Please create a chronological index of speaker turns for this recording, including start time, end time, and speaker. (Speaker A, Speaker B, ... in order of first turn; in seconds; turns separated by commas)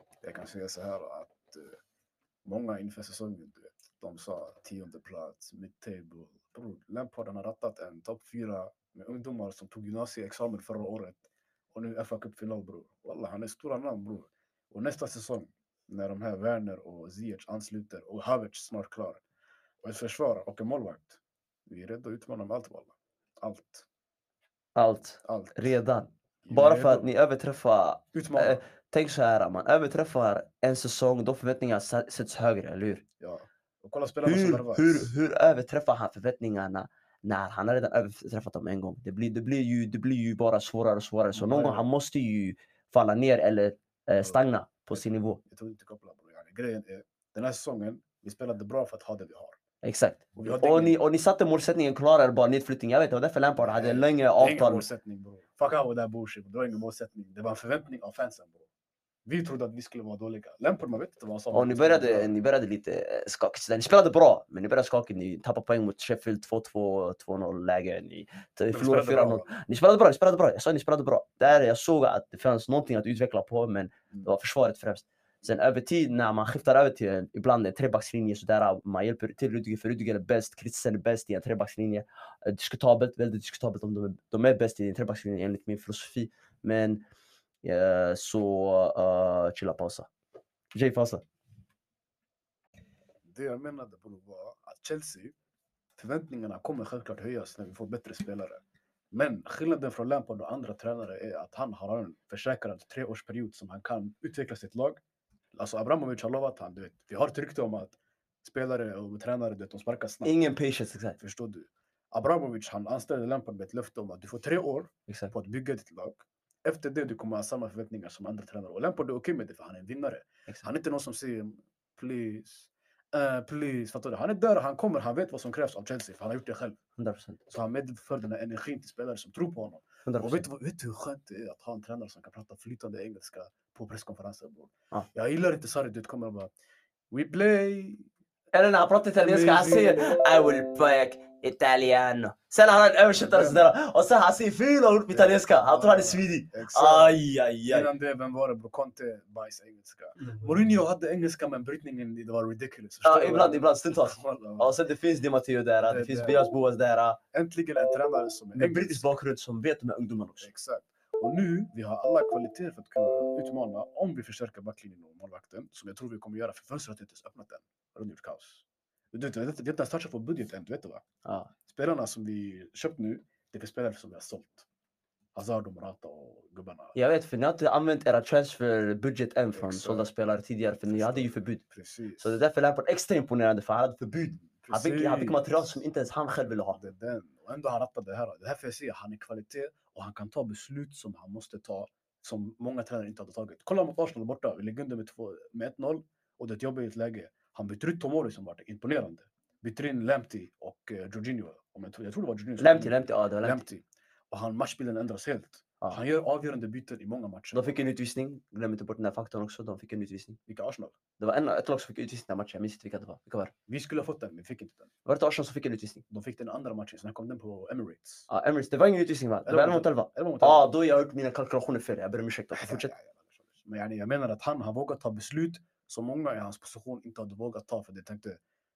Speaker A: 0.2-1.8, Speaker A: 2.5-19.2, Speaker A: 19.8-23.9, Speaker B: 24.8-33.0, Speaker A: 25.2-25.7, Speaker A: 26.4-27.1, Speaker A: 28.1-28.6, Speaker A: 33.2-35.1, Speaker B: 34.2-45.4, Speaker A: 41.3-41.9, Speaker A: 44.2-49.6, Speaker B: 49.8-54.9, Speaker A: 50.4-51.0, Speaker A: 53.6-58.7, Speaker A: 59.3-62.4, Speaker B: 61.5-87.0, Speaker A: 68.7-69.5, Speaker B: 87.6-90.1, Speaker B: 90.7-91.2, Speaker A: 93.2-95.3, Speaker A: 96.0-105.0, Speaker A: 105.5-110.3, Speaker B: 110.2-111.2, Speaker A: 111.2-126.8, Speaker B: 115.1-115.3, Speaker B: 127.0-127.4, Speaker A: 127.5-136.5, Speaker B: 130.1-130.5, Speaker A: 137.1-138.1, Speaker B: 138.5-147.9, Speaker A: 139.2-140.2, Speaker A: 143.2-143.7, Speaker A: 145.1-154.8, Speaker B: 153.0-157.2, Speaker A: 155.8-156.5, Speaker A: 157.3-159.1, Speaker B: 158.6-160.5, Speaker A: 160.4-171.0, Speaker B: 171.2-171.5, Speaker A: 171.7-174.7, Speaker A: 175.3-177.0, Speaker B: 176.9-181.6, Speaker A: 179.6-180.1, Speaker A: 180.9-182.4, Speaker B: 182.2-186.8, Speaker A: 184.4-185.8, Speaker A: 186.7-207.8, Speaker B: 202.6-203.6, Speaker B: 207.5-210.4, Speaker A: 210.5-210.9, Speaker B: 211.2-213.5, Speaker A: 213.7-214.9, Speaker B: 215.1-216.0, Speaker A: 216.1-218.3, Speaker B: 218.3-222.9, Speaker A: 219.5-220.7, Speaker A: 222.5-228.4